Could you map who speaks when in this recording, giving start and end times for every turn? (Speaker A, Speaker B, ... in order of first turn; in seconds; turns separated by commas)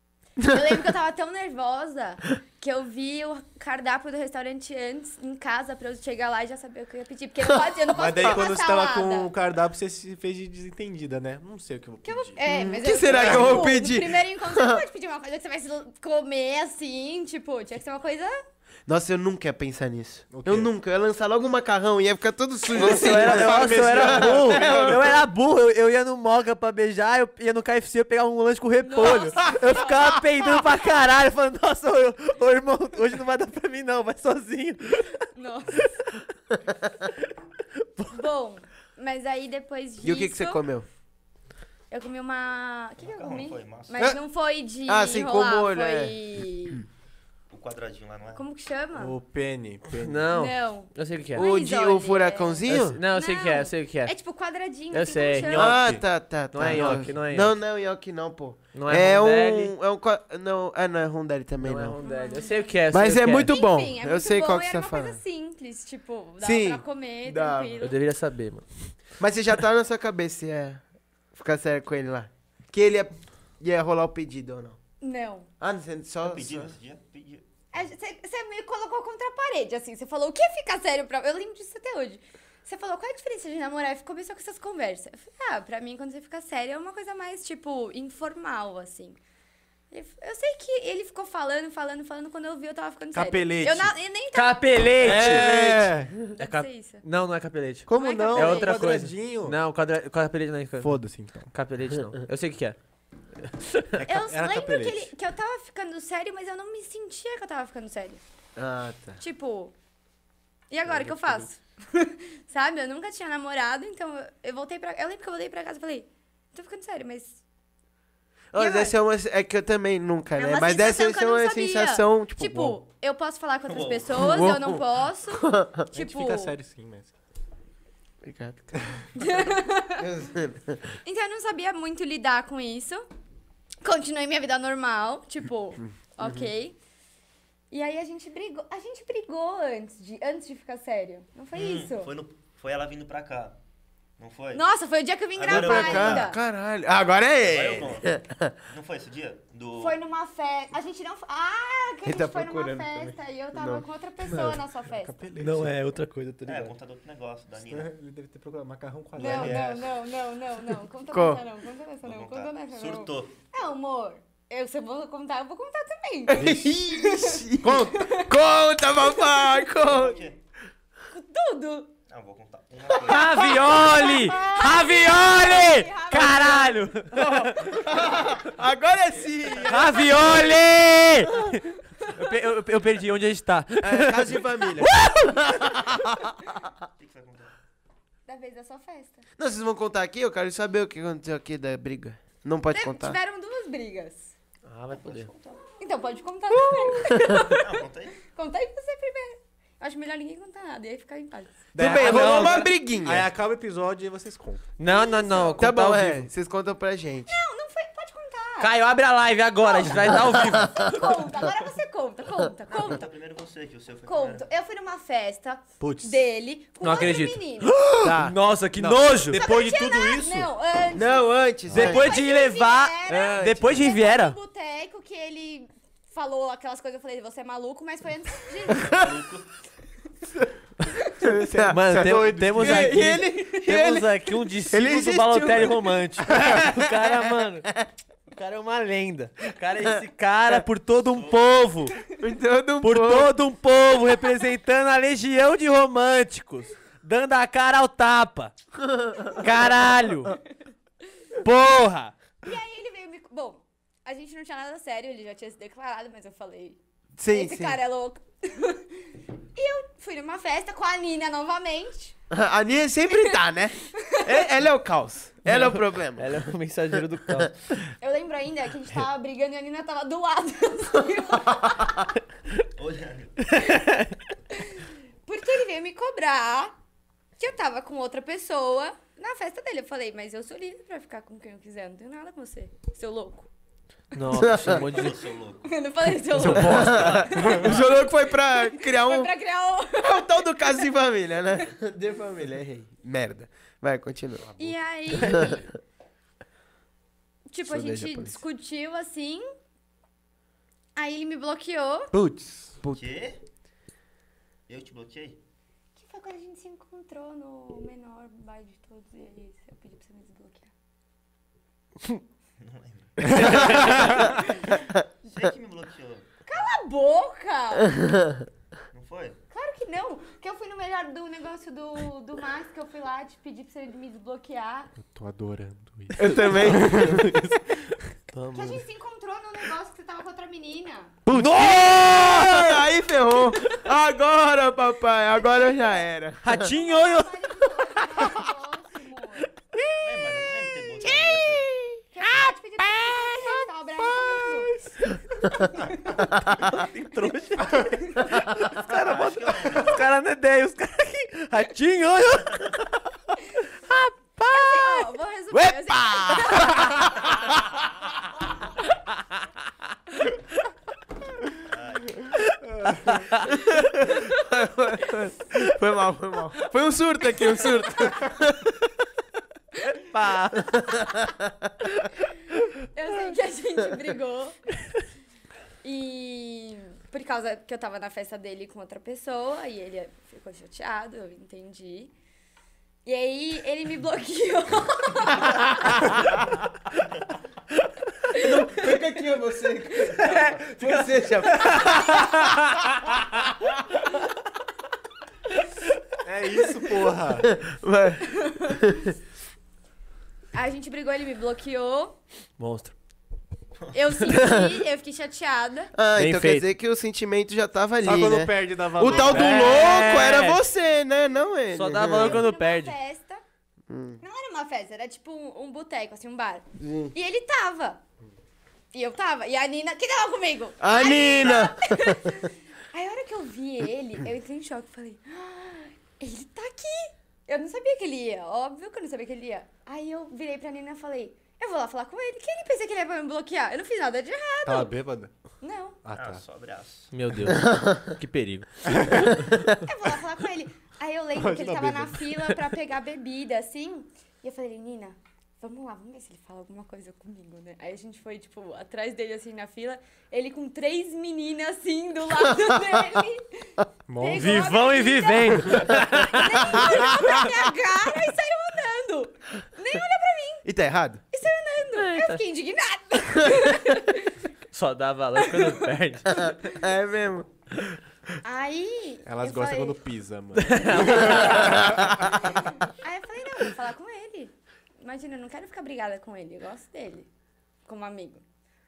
Speaker A: 0.4-9.3, Speaker B: 7.9-12.4, Speaker A: 12.0-18.4, Speaker C: 12.4-14.8, Speaker B: 13.1-13.7, Speaker C: 18.9-25.2, Speaker B: 20.3-20.7, Speaker B: 22.8-25.0, Speaker D: 22.8-35.2, Speaker A: 28.8-30.9, Speaker A: 35.3-35.9, Speaker D: 37.8-38.2, Speaker A: 38.1-40.6, Speaker C: 40.0-40.9, Speaker A: 41.9-46.8, Speaker E: 43.0-44.0, Speaker C: 44.9-46.2, Speaker E: 47.5-48.5, Speaker A: 48.4-49.2, Speaker B: 48.9-50.3, Speaker D: 50.0-51.5, Speaker A: 50.3-55.8, Speaker C: 51.4-53.0, Speaker D: 52.7-54.1, Speaker D: 54.9-55.7, Speaker B: 55.5-56.0, Speaker C: 55.5-62.0, Speaker D: 56.5-57.5, Speaker B: 56.7-57.0, Speaker D: 58.7-59.7, Speaker D: 61.6-63.5, Speaker A: 62.0-62.8, Speaker C: 62.9-65.2, Speaker A: 63.5-68.0, Speaker C: 66.4-67.8, Speaker D: 67.8-69.0, Speaker C: 69.2-70.8, Speaker C: 71.3-74.8, Speaker A: 75.0-75.5, Speaker C: 75.6-76.8, Speaker E: 76.2-77.5, Speaker A: 77.7-89.2, Speaker A: 89.9-95.4, Speaker B: 93.1-93.9, Speaker D: 94.3-101.0, Speaker B: 95.0-96.3, Speaker C: 95.1-95.6, Speaker A: 96.3-97.0, Speaker B: 97.9-99.6, Speaker A: 97.9-98.8, Speaker B: 100.8-101.5, Speaker D: 101.5-102.8, Speaker D: 103.4-103.9, Speaker B: 104.0-105.1, Speaker A: 104.0-108.2, Speaker C: 108.6-109.2, Speaker A: 109.2-109.8, Speaker A: 110.7-117.4, Speaker B: 110.9-111.5, Speaker C: 118.5-122.8, Speaker A: 118.6-119.0, Speaker A: 120.4-126.6, Speaker E: 123.7-124.2, Speaker C: 124.2-124.8, Speaker C: 125.5-125.8, Speaker B: 125.9-127.1, Speaker C: 128.2-128.7, Speaker A: 129.2-130.1, Speaker C: 130.0-130.8, Speaker A: 131.1-133.1, Speaker A: 133.8-136.8, Speaker C: 136.2-136.5, Speaker A: 137.7-142.1, Speaker E: 141.5-143.6, Speaker E: 144.2-144.7, Speaker A: 144.5-146.4, Speaker E: 145.4-146.3, Speaker C: 145.5-148.5, Speaker E: 147.4-150.0, Speaker A: 149.8-155.2, Speaker C: 152.1-153.8, Speaker B: 154.3-155.8, Speaker D: 155.4-156.7, Speaker E: 156.5-157.9, Speaker B: 157.7-159.8, Speaker A: 159.2-168.3, Speaker E: 159.2-159.9, Speaker C: 161.1-161.4, Speaker E: 162.0-163.3, Speaker C: 166.3-170.2, Speaker B: 166.4-166.7, Speaker B: 167.6-167.9, Speaker A: 169.0-169.6, Speaker E: 169.8-170.4, Speaker A: 171.1-171.9, Speaker E: 172.1-173.7, Speaker D: 173.1-177.5, Speaker C: 173.1-173.5, Speaker A: 173.6-176.9, Speaker C: 177.1-180.1, Speaker E: 179.3-180.5, Speaker D: 179.7-185.9, Speaker C: 183.8-186.6, Speaker E: 187.0-187.5, Speaker A: 188.3-189.2, Speaker C: 189.4-193.2, Speaker A: 192.7-194.3, Speaker D: 194.7-195.3, Speaker A: 195.0-197.7, Speaker C: 196.9-197.4, Speaker E: 197.3-198.2, Speaker A: 198.2-201.7, Speaker B: 201.7-204.7, Speaker C: 201.8-203.3, Speaker D: 201.8-202.7, Speaker D: 204.8-206.3, Speaker A: 204.8-205.7, Speaker C: 205.6-207.4, Speaker A: 207.3-208.7, Speaker D: 208.6-211.0, Speaker A: 209.6-213.0, Speaker E: 212.7-214.4, Speaker A: 214.1-217.7, Speaker B: 215.8-216.2, Speaker D: 216.8-217.4, Speaker B: 217.9-220.5, Speaker D: 217.9-219.5, Speaker A: 219.3-228.9, Speaker C: 220.9-222.2, Speaker B: 221.7-222.0, Speaker D: 221.7-224.4, Speaker C: 223.3-223.9, Speaker E: 228.8-229.5, Speaker C: 228.8-229.1, Speaker B: 231.2-233.2, Speaker C: 231.2-237.9, Speaker D: 231.7-237.7, Speaker A: 233.0-233.6, Speaker D: 238.3-242.0, Speaker E: 241.1-241.5, Speaker C: 242.2-243.3, Speaker D: 242.8-248.6, Speaker C: 248.8-249.4, Speaker D: 249.3-250.3, Speaker D: 251.4-252.2, Speaker A: 252.4-262.2, Speaker C: 257.2-257.8, Speaker C: 262.3-266.4, Speaker A: 263.1-263.4, Speaker A: 263.9-264.4, Speaker D: 265.5-267.6, Speaker A: 268.0-272.1, Speaker E: 272.8-273.5, Speaker D: 273.5-274.2, Speaker A: 274.5-276.7, Speaker A: 277.4-283.5, Speaker D: 284.1-285.2, Speaker C: 284.3-284.8, Speaker E: 284.5-285.7, Speaker A: 285.6-290.9, Speaker D: 286.4-287.3, Speaker C: 286.5-289.3, Speaker E: 286.7-288.0, Speaker C: 290.0-294.5, Speaker B: 294.4-294.8, Speaker A: 294.6-295.7, Speaker C: 295.1-295.6, Speaker A: 297.5-299.5, Speaker B: 297.8-298.4, Speaker A: 301.0-302.1, Speaker B: 302.1-302.8, Speaker E: 302.9-303.4, Speaker E: 304.7-305.4, Speaker A: 306.0-310.7, Speaker E: 312.6-314.7, Speaker D: 313.2-314.1, Speaker B: 313.2-314.2, Speaker A: 313.8-314.8, Speaker E: 315.2-316.6, Speaker A: 316.5-318.0, Speaker C: 318.0-318.3, Speaker E: 318.9-319.4, Speaker A: 319.5-324.9, Speaker B: 325.0-327.4, Speaker C: 326.2-327.3, Speaker D: 326.5-328.8, Speaker A: 328.5-331.2, Speaker B: 331.3-331.9, Speaker D: 331.3-332.9, Speaker C: 331.4-336.6, Speaker A: 335.4-336.0, Speaker D: 336.4-337.4, Speaker A: 336.6-339.5, Speaker E: 340.0-341.7, Speaker D: 341.3-343.6, Speaker A: 342.1-344.7, Speaker A: 345.5-346.2, Speaker D: 346.3-352.9, Speaker A: 348.0-348.3, Speaker E: 348.9-350.1, Speaker E: 352.4-352.8, Speaker D: 353.9-357.3, Speaker A: 354.5-357.4, Speaker E: 361.6-362.4, Speaker B: 362.6-363.2, Speaker D: 363.0-363.6, Speaker C: 363.7-368.7, Speaker A: 364.0-364.5, Speaker D: 370.0-371.0, Speaker C: 370.6-371.7, Speaker A: 372.9-374.6, Speaker A: 375.8-382.1, Speaker A: 383.1-386.1, Speaker A: 388.3-388.8, Speaker C: 388.3-392.7, Speaker B: 396.2-397.6, Speaker C: 397.5-399.1, Speaker A: 398.4-398.8, Speaker A: 400.5-402.2, Speaker D: 402.6-402.9, Speaker A: 403.9-405.9, Speaker C: 404.3-404.7, Speaker C: 405.9-412.4, Speaker D: 406.2-406.7, Speaker B: 408.0-409.7, Speaker D: 409.1-410.6, Speaker A: 409.3-410.3, Speaker D: 411.7-412.9, Speaker A: 412.0-413.4, Speaker C: 413.9-414.2, Speaker A: 414.2-418.0, Speaker C: 416.8-417.1, Speaker A: 418.9-434.9, Speaker C: 420.8-422.4, Speaker B: 434.6-435.3, Speaker A: 435.6-436.0, Speaker B: 436.1-436.4, Speaker E: 436.1-437.1, Speaker D: 437.1-439.4, Speaker C: 437.7-438.1, Speaker B: 438.9-439.3, Speaker A: 439.8-460.6, Speaker B: 441.3-442.3, Speaker B: 454.1-454.8, Speaker D: 454.3-456.8, Speaker C: 460.6-461.2, Speaker A: 461.3-464.4, Speaker D: 462.0-462.4, Speaker D: 464.7-466.5, Speaker A: 465.4-465.9, Speaker C: 466.3-467.5, Speaker A: 468.4-470.0, Speaker B: 469.3-472.5, Speaker D: 470.6-471.7, Speaker A: 470.9-477.3, Speaker C: 471.7-472.3, Speaker A: 477.9-478.4